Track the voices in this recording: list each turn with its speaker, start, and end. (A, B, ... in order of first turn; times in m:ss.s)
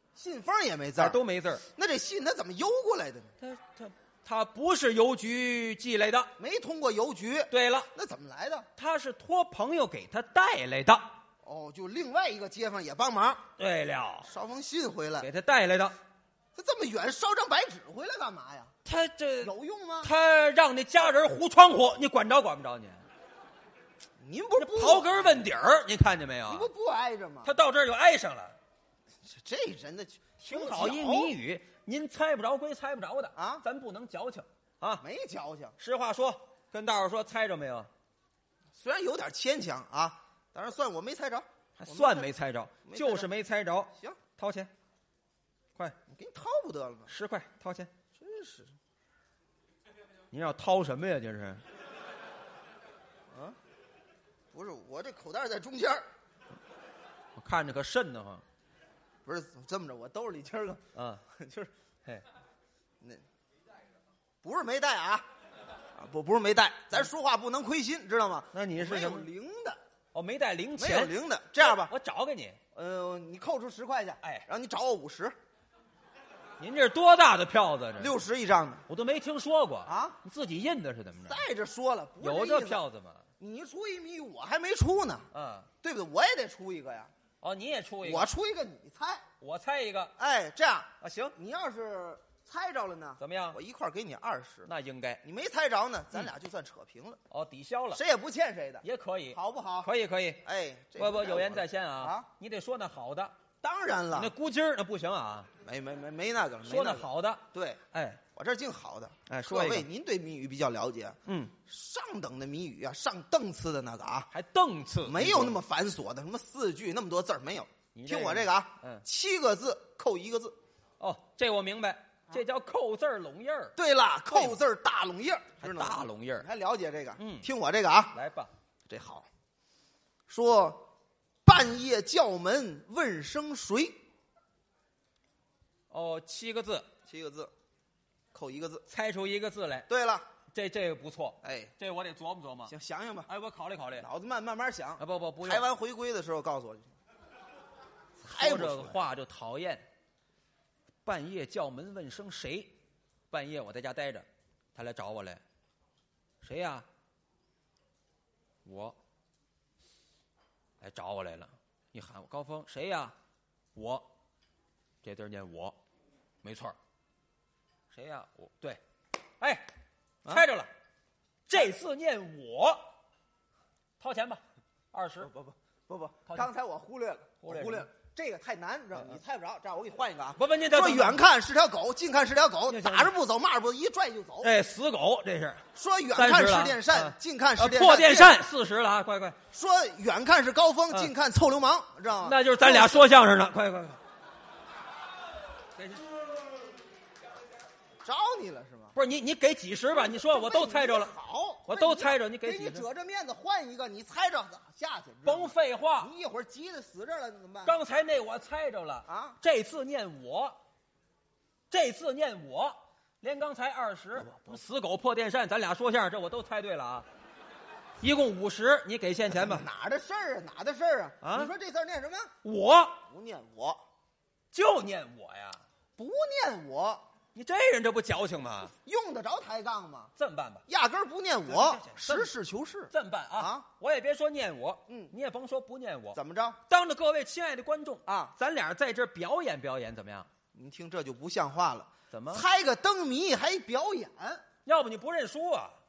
0:00.1-0:01.2 A
0:01.0-0:01.6 B
0:01.8-0:03.3 A
0:03.4-0:06.3 B
0:06.4-0:08.7 A
0:07.5-0:07.9 B
0:08.8-0:11.2 B
0:11.4-0:13.4 A
0:13.6-0:14.3 B
0:14.2-0:15.3 A
0:15.2-0:16.0 B
0:16.6-0:18.7 A
0:18.8-0:23.0 B
0:19.4-0:20.1 A
0:24.2-0:25.4 A
0:24.6-0:26.7 B
0:26.5-0:27.5 A
0:27.4-0:28.6 B
0:29.2-0:31.3 A
0:30.4-0:35.0 B
0:33.4-0:33.6 A
0:35.0-0:35.8 A
0:35.8-0:37.9 B
0:38.8-0:42.3 A
0:41.8-0:44.7 B
0:42.8-0:43.3 A
0:43.9-0:44.2 A
0:46.1-0:47.1 A
0:47.1-0:47.9 B
0:48.2-0:48.7 A
0:50.3-0:51.6 B
0:53.3-0:53.6 A
0:54.5-0:56.1 A
0:57.4-0:58.4 B
0:59.2-1:01.7 A
1:01.0-1:01.2 B
1:04.4-1:05.3 A
1:05.9-1:09.8 A
1:08.5-1:09.3 B
1:10.1-1:12.6 B
1:10.8-1:11.9 A
1:12.7-1:15.4 A
1:14.2-1:14.5 B
1:16.6-1:18.2 B
1:18.0-1:18.9 A
1:18.9-1:21.4 B
1:19.9-1:20.2 A
1:21.2-1:22.8 A
1:22.2-1:23.2 B
1:23.4-1:25.3 A
1:25.3-1:25.7 B
1:25.8-1:27.1 A
1:27.4-1:28.3 B
1:28.0-1:29.2 A
1:29.4-1:30.1 B
1:30.2-1:34.7 A
1:31.0-1:31.4 B
1:33.2-1:33.6 B
1:34.6-1:35.2 B
1:35.2-1:37.2 A
1:37.3-1:38.0 B
1:37.9-1:39.9 A
1:38.8-1:40.4 B
1:40.4-1:42.3 A
1:41.0-1:43.4 B
1:43.6-1:44.3 A
1:44.1-1:45.5 B
1:45.6-1:54.3 A
1:46.6-1:48.2 B
1:49.3-1:49.9 B
1:51.3-1:51.5 B
1:54.3-1:55.6 B
1:55.0-2:00.6 A
1:57.9-1:59.0 B
2:01.0-2:03.8 B
2:03.8-2:08.2 A
2:04.3-2:04.6 B
2:05.6-2:06.5 B
2:07.2-2:07.5 B
2:08.1-2:08.5 B
2:08.9-2:09.3 A
2:10.3-2:10.9 A
2:11.4-2:14.0 A
2:15.9-2:16.9 B
2:17.1-2:17.5 A
2:18.3-2:18.8 A
2:18.9-2:19.9 B
2:19.9-2:20.3 A
2:20.5-2:22.7 B
2:21.4-2:21.7 A
2:22.7-2:23.3 A
2:23.3-2:24.1 B
2:24.0-2:26.9 A
2:25.0-2:25.6 B
2:28.2-2:29.1 A
2:28.2-2:29.9 B
2:31.0-2:32.8 B
2:33.3-2:35.4 B
2:36.4-2:36.9 B
2:38.6-2:39.0 B
2:40.8-2:43.1 B
2:43.8-2:44.1 B
2:45.0-2:45.8 B
2:46.4-2:46.8 B
2:47.9-2:48.8 B
2:49.4-2:49.7 B
2:50.2-2:50.7 B
2:51.5-2:52.9 B
2:54.0-2:55.3 B
2:55.2-3:04.5 A
2:57.4-2:57.9 B
3:00.4-3:01.2 B
3:02.7-3:03.1 B
3:04.4-3:05.6 B
3:05.8-3:08.4 A
3:06.2-3:09.4 B
3:09.5-3:13.1 A
3:12.2-3:14.0 B
3:15.8-3:16.0 B
3:18.0-3:19.0 A
3:19.0-3:21.1 B
3:19.9-3:27.8 A
3:21.7-3:22.9 B
3:25.2-3:26.1 B
3:27.6-3:30.6 B
3:29.1-3:29.4 A
3:31.7-3:37.1 B
3:34.2-3:34.6 A
3:38.0-3:39.6 B
3:39.3-3:42.3 A
3:41.2-3:41.5 B
3:42.4-3:43.0 B
3:43.1-3:43.8 A
3:44.5-3:45.6 B
3:46.0-3:47.0 A
3:47.4-3:48.7 B
3:48.7-3:50.1 A
3:50.2-3:50.6 B
3:50.7-3:53.7 A
3:51.5-3:52.3 B
3:52.9-4:00.3 B
3:54.9-3:55.1 A
3:56.1-3:56.6 A
3:58.1-3:58.3 A
4:00.5-4:04.4 A
4:02.1-4:02.5 B
4:04.6-4:05.8 B